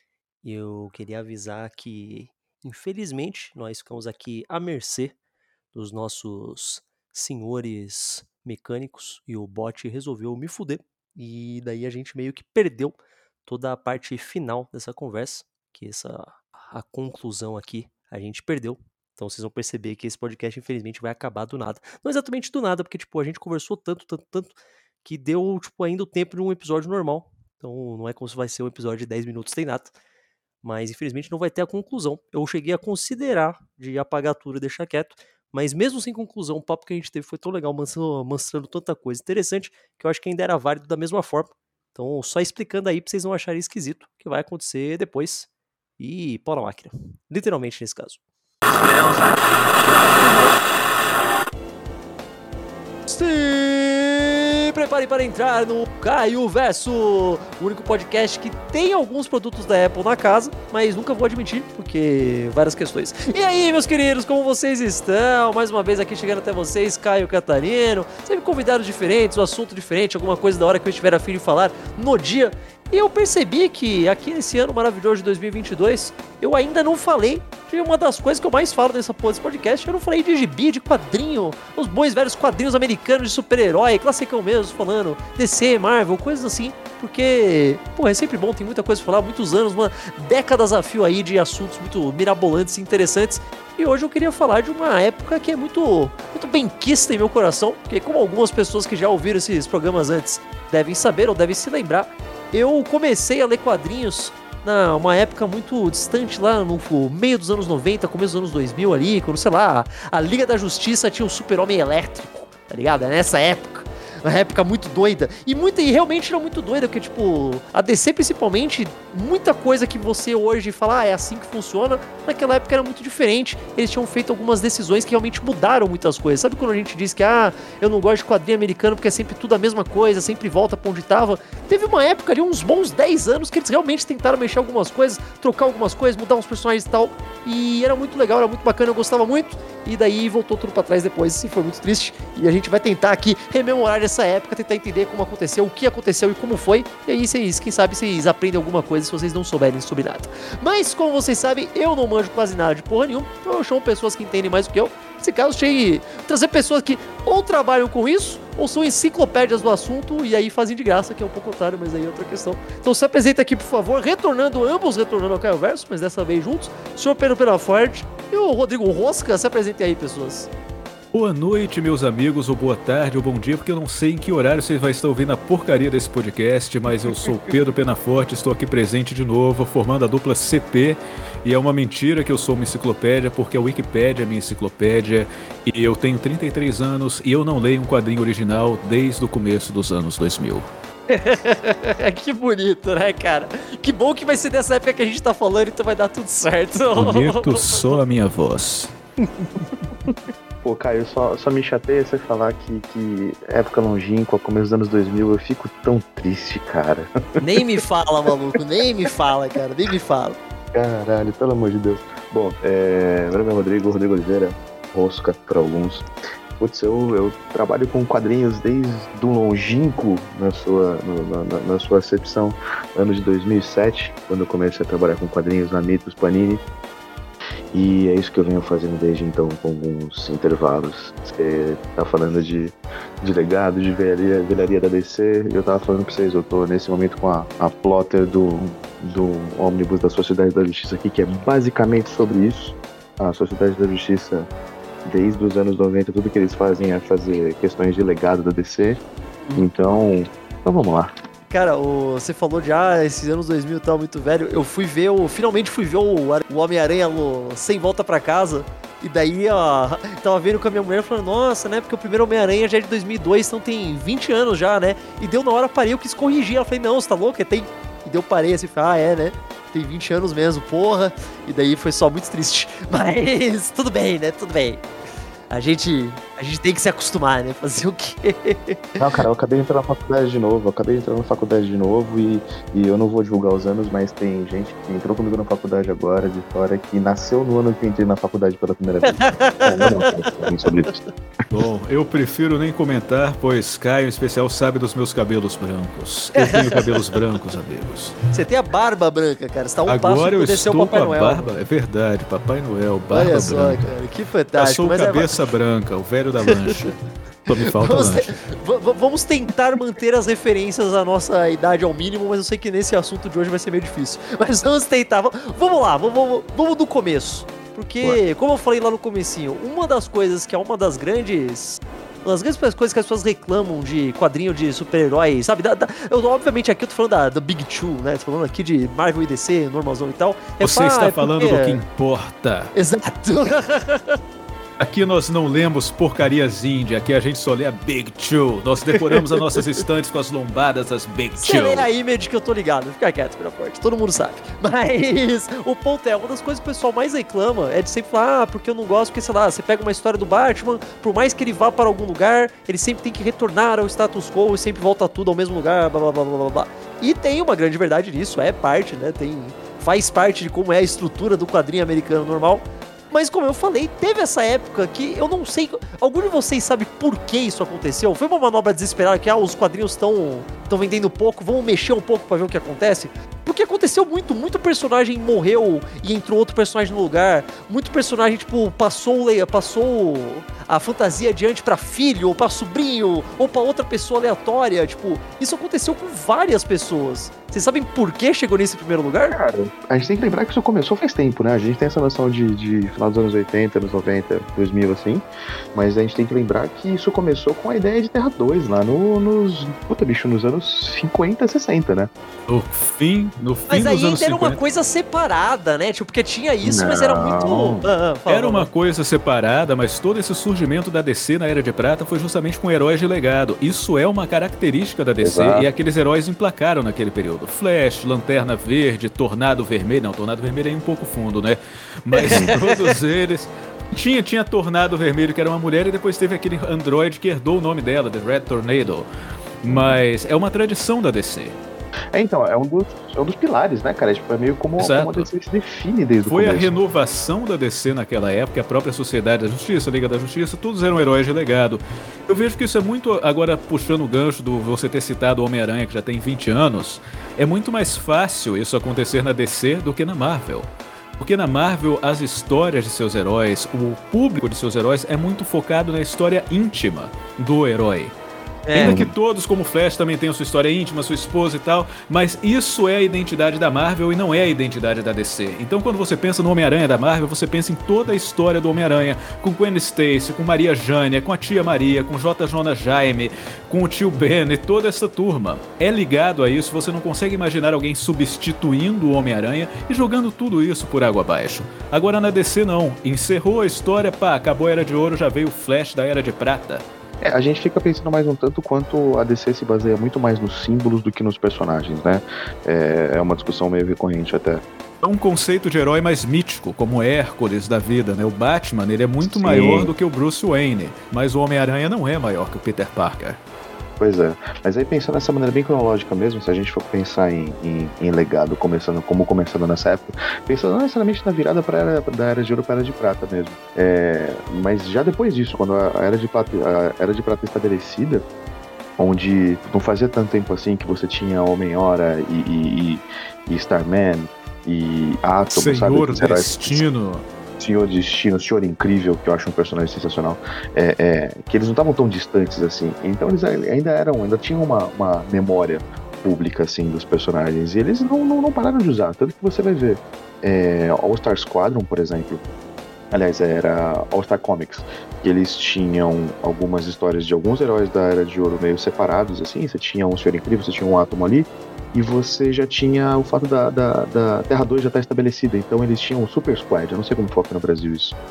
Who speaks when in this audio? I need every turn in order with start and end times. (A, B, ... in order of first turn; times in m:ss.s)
0:00.4-0:05.2 A
0:05.7-0:24.5 A
0:25.0-0:29.9 A
0:30.6-0:45.5 A
0:46.0-0:48.2 A
0:49.0-0:49.2 A
0:53.1-2:50.5 A
2:51.1-3:10.7 B
3:11.1-3:17.7 A
3:17.0-3:18.9 B
3:20.6-3:27.1 C
3:27.4-3:30.4 A
3:30.7-3:36.1 C
3:36.6-3:46.6 C
3:47.7-4:04.5 C
4:05.0-4:09.0 C
4:09.6-4:11.1 C
4:11.5-4:34.9 A
4:35.5-4:38.9 A
4:39.0-4:51.0 C
4:49.1-4:50.3 A
4:51.5-4:58.2 B
4:56.4-4:57.2 A
4:58.3-5:01.5 A
4:59.9-5:03.9 B
5:03.1-5:05.3 A
5:04.6-5:08.4 B
5:07.8-5:31.8 A
5:30.6-5:32.7 B
5:32.8-5:34.2 A
5:34.8-5:41.9 B
5:41.4-6:29.4 A
6:29.3-6:42.1 C
6:42.5-6:44.6 B
6:43.7-6:48.7 A
6:46.6-6:47.9 C
6:48.3-7:09.1 B
6:55.2-6:55.7 C
7:02.1-7:02.9 A
7:09.6-7:11.6 B
7:09.7-7:10.0 C
7:12.1-7:16.7 C
7:14.8-7:15.3 B
7:16.2-7:30.7 B
7:31.2-7:38.1 B
7:38.7-7:39.0 A
7:38.8-8:06.8 B
7:38.8-7:39.1 C
8:07.2-8:14.6 C
8:15.0-8:23.4 B
8:19.2-8:19.9 C
8:24.0-8:38.2 C
8:39.0-8:46.8 C
8:45.5-8:47.2 B
8:47.6-9:02.4 C
9:03.1-9:18.1 C